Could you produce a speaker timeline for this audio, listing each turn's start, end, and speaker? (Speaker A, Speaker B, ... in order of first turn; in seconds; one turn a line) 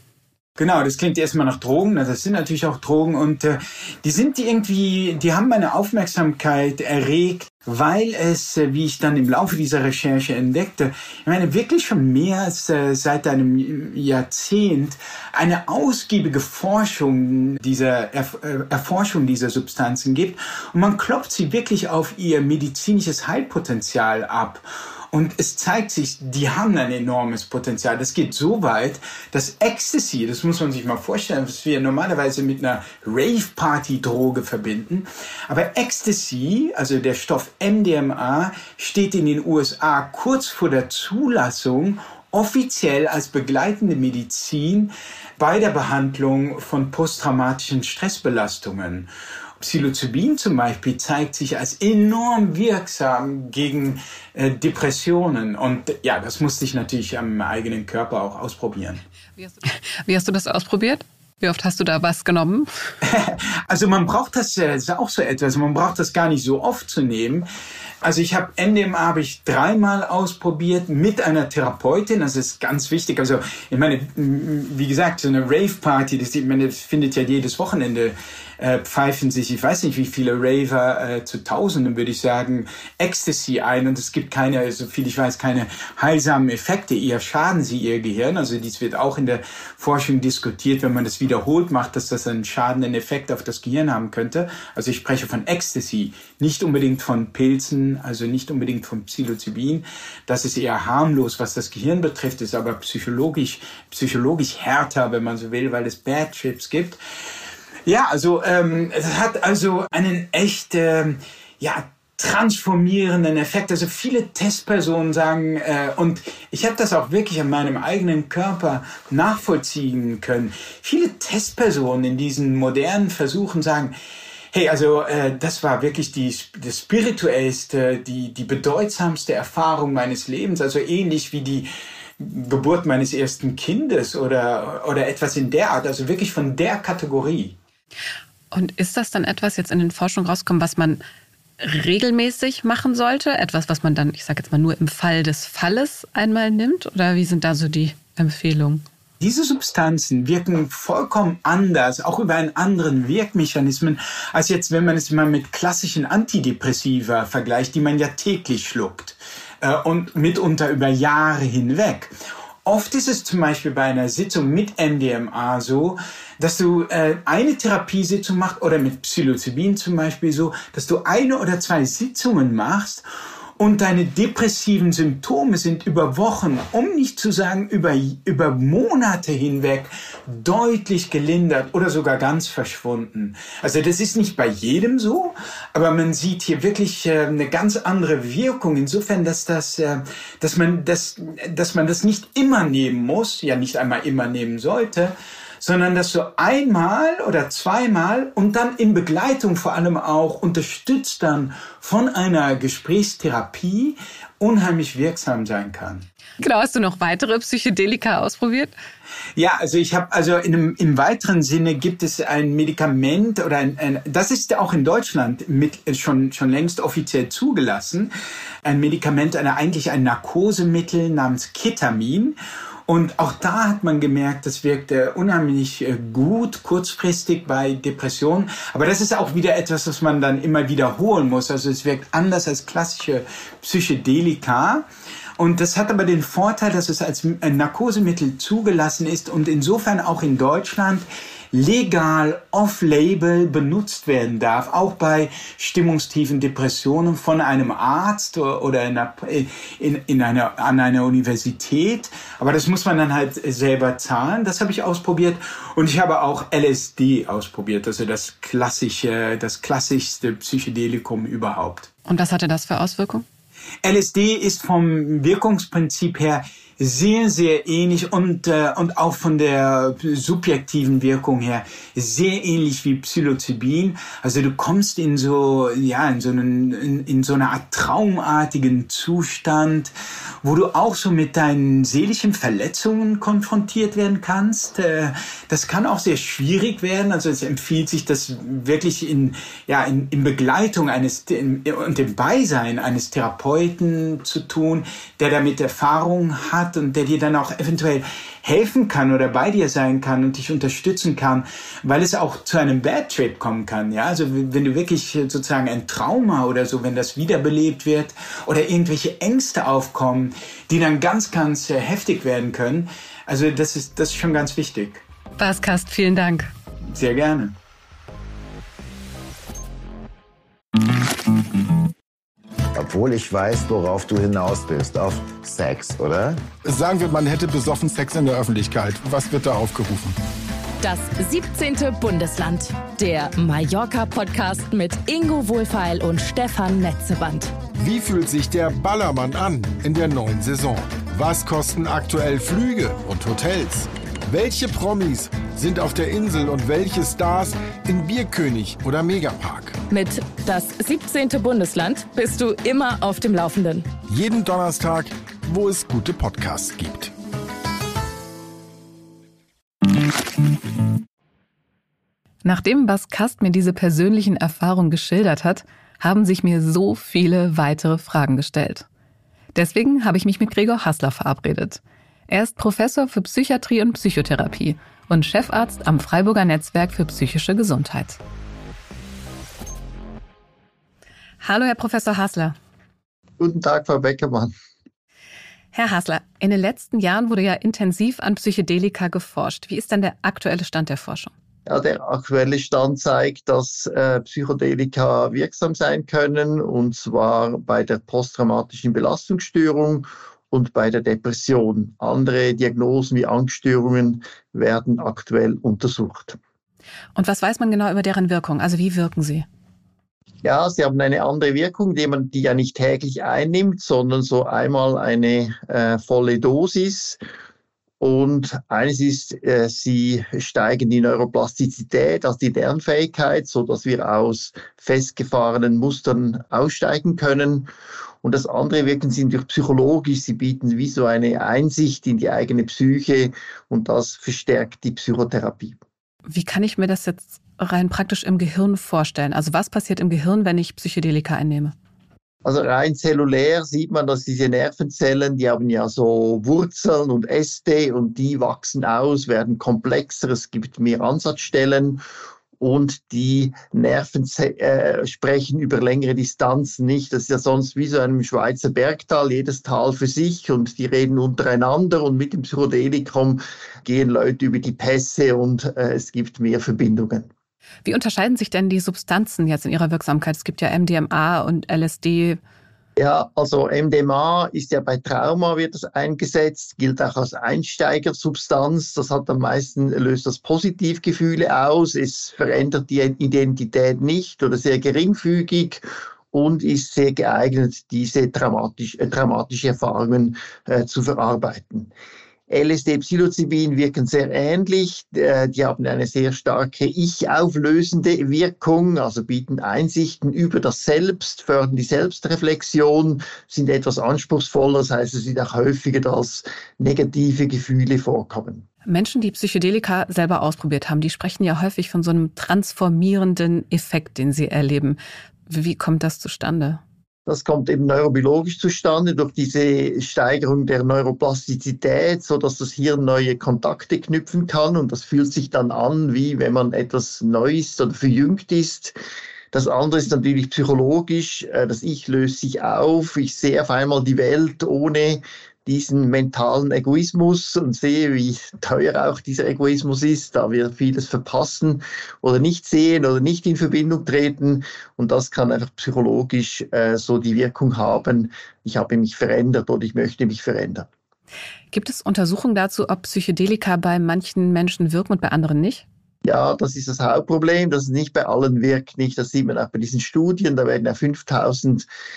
Speaker A: 0.6-59.0
Speaker B: 59.4-62.7
Speaker A: 63.0-67.5
Speaker A: 68.0-107.0
Speaker A: 107.8-123.9
Speaker A: 124.5-131.7
Speaker A: 132.2-137.6
Speaker B: 138.5-141.0
Speaker B: 141.6-148.8
Speaker A: 149.2-162.1
Speaker A: 162.6-173.0
Speaker A: 173.6-206.1
Speaker B: 206.4-208.7
Speaker A: 209.3-218.1
Speaker A: 218.6-222.3
Speaker A: 222.9-234.8
Speaker A: 235.4-261.9
Speaker B: 262.1-263.2
Speaker A: 263.8-279.9
Speaker A: 280.4-315.0
Speaker B: 315.4-316.5
Speaker A: 316.9-317.5
Speaker C: 322.8-326.4
Speaker D: 326.6-330.1
Speaker E: 330.8-337.5
Speaker D: 337.8-349.8
Speaker E: 349.9-353.9
Speaker D: 354.1-357.1
Speaker B: 362.4-368.9
Speaker B: 369.5-378.2
Speaker B: 381.4-382.6
Speaker F: 383.4-384.5
Speaker B: 385.7-391.3
Speaker F: 391.7-406.4
Speaker B: 407.1-409.4
Speaker F: 410.4-417.2
Speaker F: 418.0-427.7
Speaker F: 428.2-435.8
Speaker B: 436.3-441.7
Speaker F: 442.4-452.0
Speaker F: 452.6-467.3
Speaker B: 467.8-472.4
Speaker F: 473.0-491.9
Speaker F: 492.5-508.6
Speaker B: 508.9-516.8
Speaker F: 517.3-528.9
Speaker F: 529.5-550.9
Speaker B: 551.7-555.9
Speaker F: 556.2-561.9